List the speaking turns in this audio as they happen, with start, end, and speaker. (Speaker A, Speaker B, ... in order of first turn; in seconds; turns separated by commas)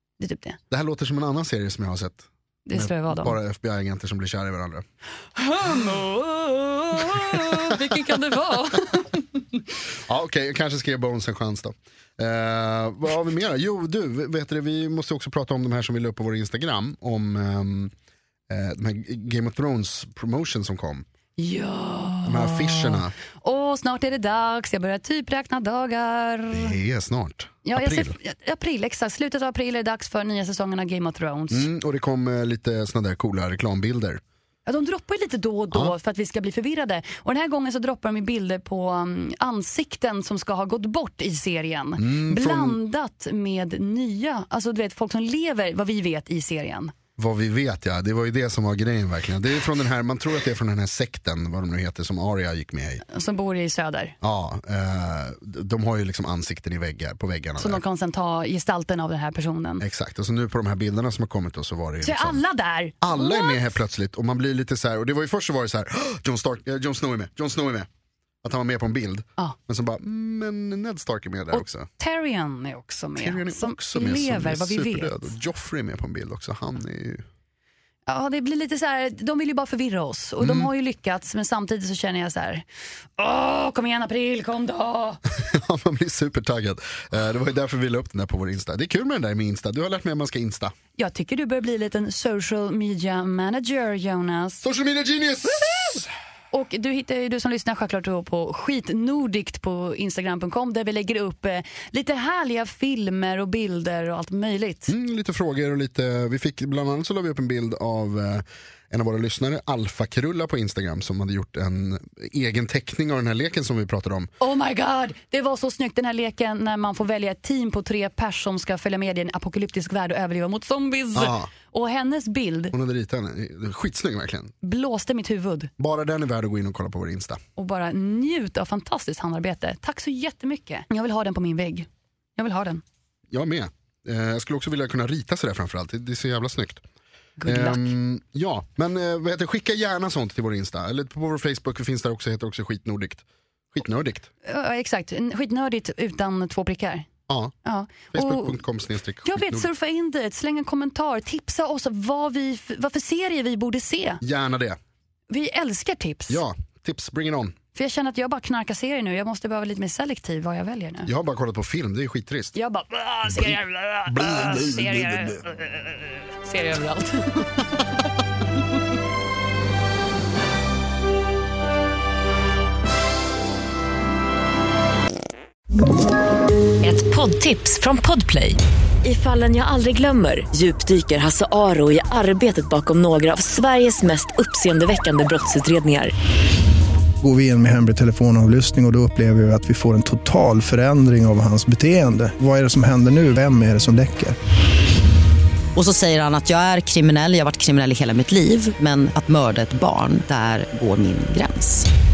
Speaker A: 0.2-0.6, Speaker B: 0.7-4.8, Speaker A: 2.7-3.4, Speaker A: 5.3-9.6, Speaker B: 7.2-8.0, Speaker B: 10.1-17.9, Speaker B: 18.5-21.1, Speaker A: 21.4-26.8, Speaker B: 22.3-23.1, Speaker B: 26.5-28.2, Speaker A: 27.6-31.7, Speaker B: 31.5-34.2, Speaker A: 34.7-46.9, Speaker B: 42.0-42.8, Speaker B: 47.2-53.0, Speaker A: 53.0-54.1, Speaker B: 54.2-57.8, Speaker A: 57.6-59.8, Speaker B: 59.8-62.4, Speaker A: 62.0-63.8, Speaker B: 63.0-67.9, Speaker B: 68.4-71.9, Speaker A: 71.5-75.3, Speaker B: 73.2-77.3, Speaker A: 78.1-82.7, Speaker B: 80.4-80.7, Speaker A: 83.2-85.2, Speaker B: 85.3-90.7, Speaker A: 91.0-94.6, Speaker B: 94.6-96.1, Speaker A: 96.5-104.9, Speaker B: 104.9-114.3, Speaker A: 114.4-122.8, Speaker B: 121.2-121.5, Speaker B: 122.7-124.5, Speaker A: 124.6-125.7, Speaker B: 125.8-127.4, Speaker A: 127.6-132.8, Speaker B: 133.3-136.8, Speaker A: 137.4-137.9, Speaker B: 137.4-144.3, Speaker A: 144.4-147.1, Speaker B: 147.3-147.6, Speaker A: 147.7-148.6, Speaker B: 148.1-149.7, Speaker A: 149.2-154.2, Speaker B: 154.2-154.8, Speaker A: 155.3-156.4, Speaker B: 156.3-157.6, Speaker A: 157.7-161.1, Speaker B: 161.1-162.5, Speaker A: 162.6-167.8, Speaker B: 163.3-163.6, Speaker B: 164.1-165.4, Speaker C: 176.8-186.1, Speaker D: 187.2-194.3, Speaker E: 195.8-201.9